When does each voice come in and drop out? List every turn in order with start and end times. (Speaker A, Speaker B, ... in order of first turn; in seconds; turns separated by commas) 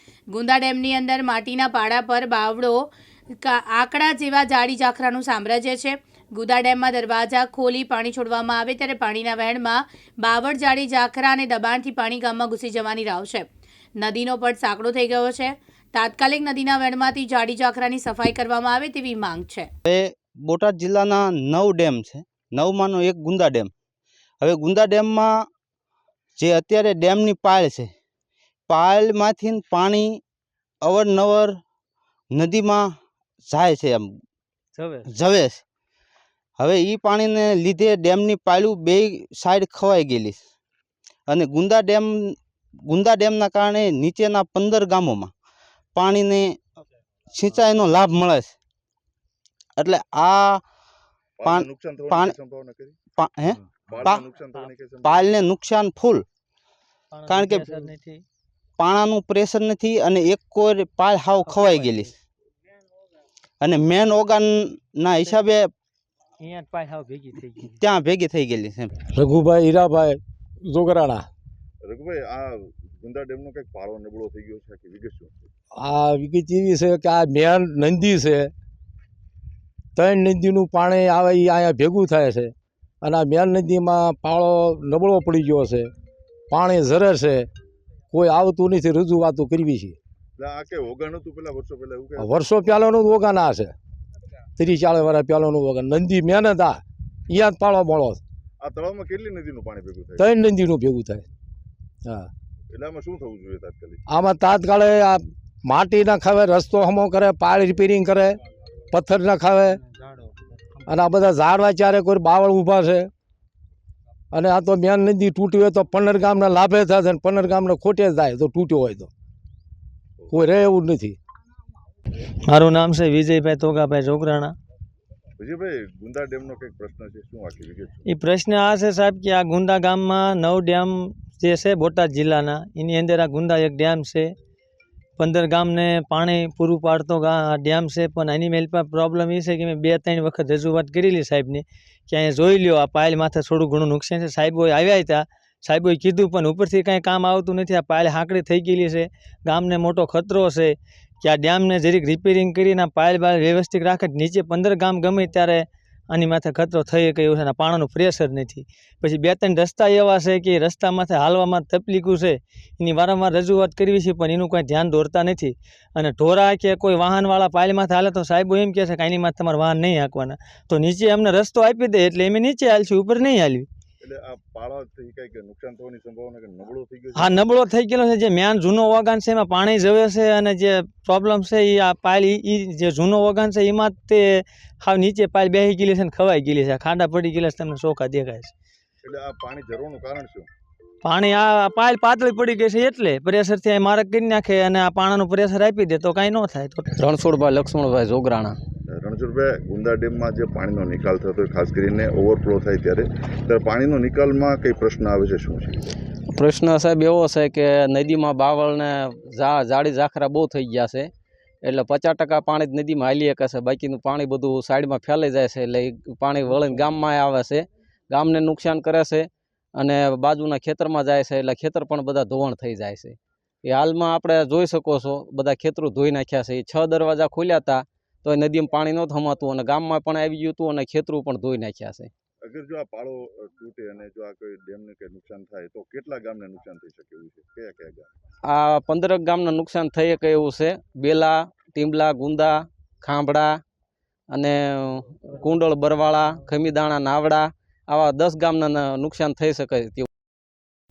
Speaker A: 0.3-2.8, Speaker A: 3.4-13.4, Speaker A: 14.0-19.7, Speaker B: 19.9-23.7, Speaker B: 24.4-25.5, Speaker B: 26.4-27.9, Speaker B: 28.7-30.2, Speaker B: 30.8-31.6, Speaker B: 32.3-32.9, Speaker B: 33.4-34.1, Speaker C: 34.7-35.1, Speaker B: 35.1-35.6, Speaker B: 36.6-40.4, Speaker B: 41.3-42.4, Speaker B: 42.9-45.3, Speaker B: 46.0-46.6, Speaker B: 47.3-48.5, Speaker B: 49.8-50.6, Speaker D: 51.4-53.0, Speaker B: 51.4-52.3, Speaker B: 53.1-54.2, Speaker D: 53.9-55.4, Speaker B: 55.0-56.2, Speaker C: 57.1-58.2, Speaker B: 57.3-57.8, Speaker B: 58.8-62.1, Speaker C: 61.4-62.1, Speaker B: 63.6-65.7, Speaker C: 66.4-67.8, Speaker B: 67.8-68.9, Speaker E: 69.1-71.2, Speaker D: 71.8-75.5, Speaker E: 75.8-78.5, Speaker E: 80.0-85.9, Speaker E: 86.5-87.5, Speaker E: 88.1-90.0, Speaker D: 90.4-92.4, Speaker E: 92.2-93.7, Speaker E: 94.6-98.2, Speaker D: 98.6-100.3, Speaker E: 100.2-101.2, Speaker D: 102.7-104.0, Speaker E: 104.1-108.4, Speaker E: 108.9-109.8, Speaker E: 110.9-113.1, Speaker E: 114.3-119.1, Speaker E: 120.3-121.2, Speaker C: 122.5-124.5, Speaker D: 125.4-128.0, Speaker C: 128.1-134.3, Speaker C: 135.2-173.7, Speaker D: 174.0-177.4, Speaker C: 177.1-188.5, Speaker D: 189.0-190.5, Speaker C: 191.0-196.9, Speaker F: 197.0-198.6, Speaker D: 198.9-205.9, Speaker F: 206.3-211.1, Speaker F: 211.6-232.1, Speaker D: 232.4-238.1, Speaker F: 238.5-243.6, Speaker F: 244.3-250.1